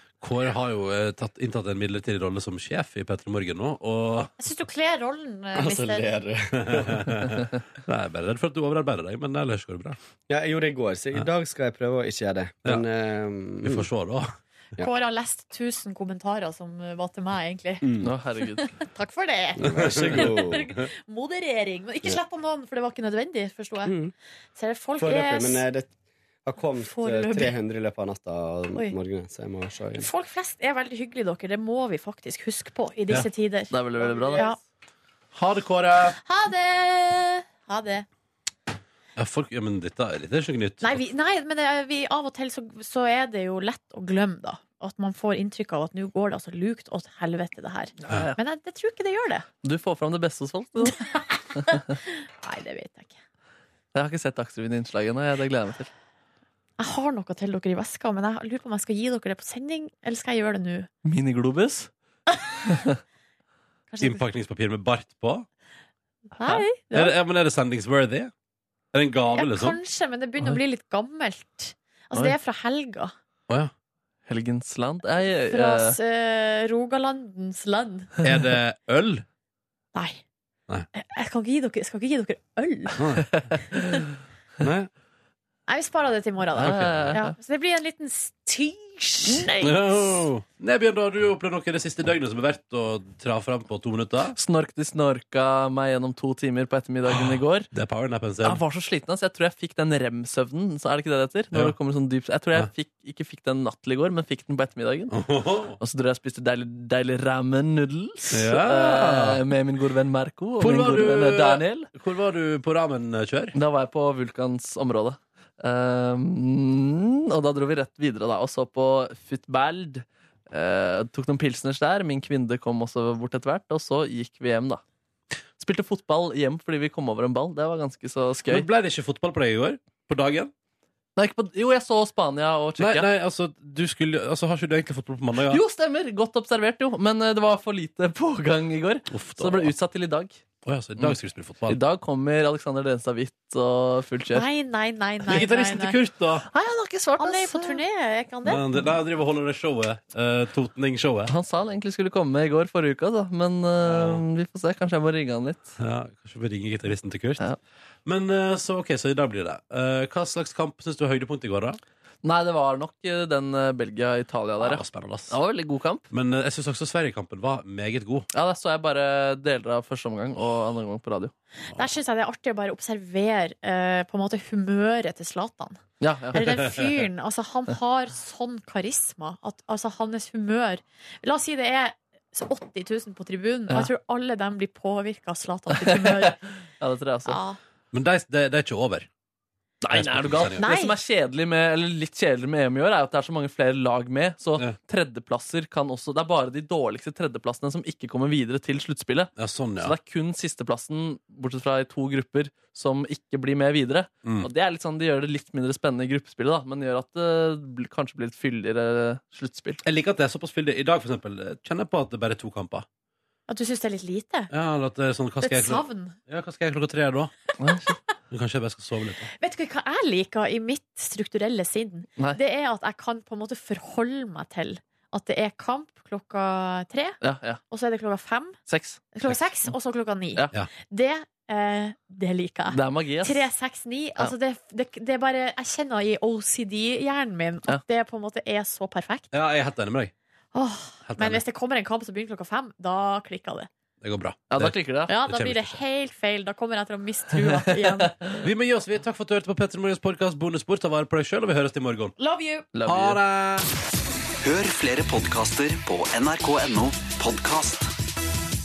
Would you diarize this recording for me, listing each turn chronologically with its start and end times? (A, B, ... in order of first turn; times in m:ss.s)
0:00.2-0:04.3 A
0:04.4-0:06.1 B
0:05.5-0:07.2 C
0:06.5-0:10.0 A
0:10.3-0:13.9 C
0:13.6-0:14.3 A
0:14.8-0:17.8 B
0:17.8-0:18.1 C
0:18.0-0:18.7 D
0:18.5-0:24.0 B
0:19.6-0:20.7 C
0:19.6-0:20.8 A
0:23.8-0:24.1 C
0:24.6-0:25.6 B
0:25.0-0:25.9 C
0:26.4-0:30.1 C
0:26.8-0:27.5 B
0:30.0-0:34.6 B
0:33.7-0:34.5 D
0:34.0-0:34.4 C
0:35.3-0:36.2 A
0:36.2-0:38.1 B
0:39.2-0:41.0 A
0:40.8-0:49.5 B
0:48.0-0:48.4 D
0:49.6-0:51.0 D
0:50.8-0:53.2 B
0:53.9-0:55.9 D
0:56.8-1:00.9 B
1:01.0-1:01.9 D
1:02.7-1:02.9 D
1:03.9-1:04.2 B
1:04.0-1:05.5 A
1:06.3-1:07.1 B
1:06.9-1:08.3 A
1:08.9-1:09.8 A
1:09.4-1:13.1 B
1:14.3-1:16.0 D
1:15.5-1:18.1 B
1:18.2-1:19.2 A
1:19.9-1:20.2 B
1:20.9-1:23.0 B
1:23.0-1:23.6 A
1:23.7-1:24.0 B
1:24.6-1:24.9 A
1:25.7-1:29.5 B
1:26.6-1:27.2 A
1:26.6-1:27.4 D
1:29.3-1:30.2 D
1:29.6-1:34.4 A
1:34.4-1:37.7 D
1:37.1-1:38.6 A
1:38.4-1:45.2 D
1:45.1-1:45.8 A
1:45.8-1:51.9 D
1:48.3-1:49.4 A
1:50.6-1:53.6 A
1:53.5-2:04.8 D
2:05.6-2:08.7 D
2:08.5-2:10.5 A
2:11.2-2:13.1 D
2:12.8-2:15.6 A
2:15.5-2:20.4 D
2:19.1-2:19.7 A
2:20.6-2:21.8 A
2:21.7-2:24.5 D
2:24.3-2:26.0 B
2:25.3-2:26.5 A
2:26.5-2:27.8 D
2:27.2-2:28.6 B
2:28.4-2:31.3 A
2:31.3-2:35.8 D
2:33.8-2:34.2 A
2:35.8-2:37.4 A
2:38.0-2:41.8 A
2:42.2-2:46.1 D
2:44.6-2:45.4 A
2:46.1-2:48.3 A
2:48.3-2:51.3 D
2:51.7-2:55.8 B
2:56.0-2:56.6 D
2:56.3-3:06.4 B
3:05.8-3:07.4 D
3:07.3-3:07.6 B
3:07.9-3:09.1 A
3:09.8-3:29.8 D
3:09.9-3:10.7 A
3:10.6-3:11.0 B
3:19.4-3:20.0 A
3:29.8-3:32.9 A
3:33.5-3:34.5 B
3:34.5-3:37.3 A
3:35.4-3:36.2 B
3:37.6-3:38.0 D
3:38.3-3:39.3 A
3:39.4-3:48.6 B
3:47.2-3:47.6 D
3:48.7-3:49.2 D
3:49.1-3:59.3 B
3:52.7-3:53.5 D
3:59.3-4:00.1 A
4:00.5-4:03.7 B
4:01.0-4:01.4 A
4:04.0-4:05.8 A
4:04.5-4:05.1 D
4:05.1-4:08.1 B
4:07.6-4:08.4 D
4:08.4-4:12.2 A
4:12.2-4:12.7 B
4:12.7-4:13.2 D
4:12.8-4:13.7 A
4:14.4-4:17.9 E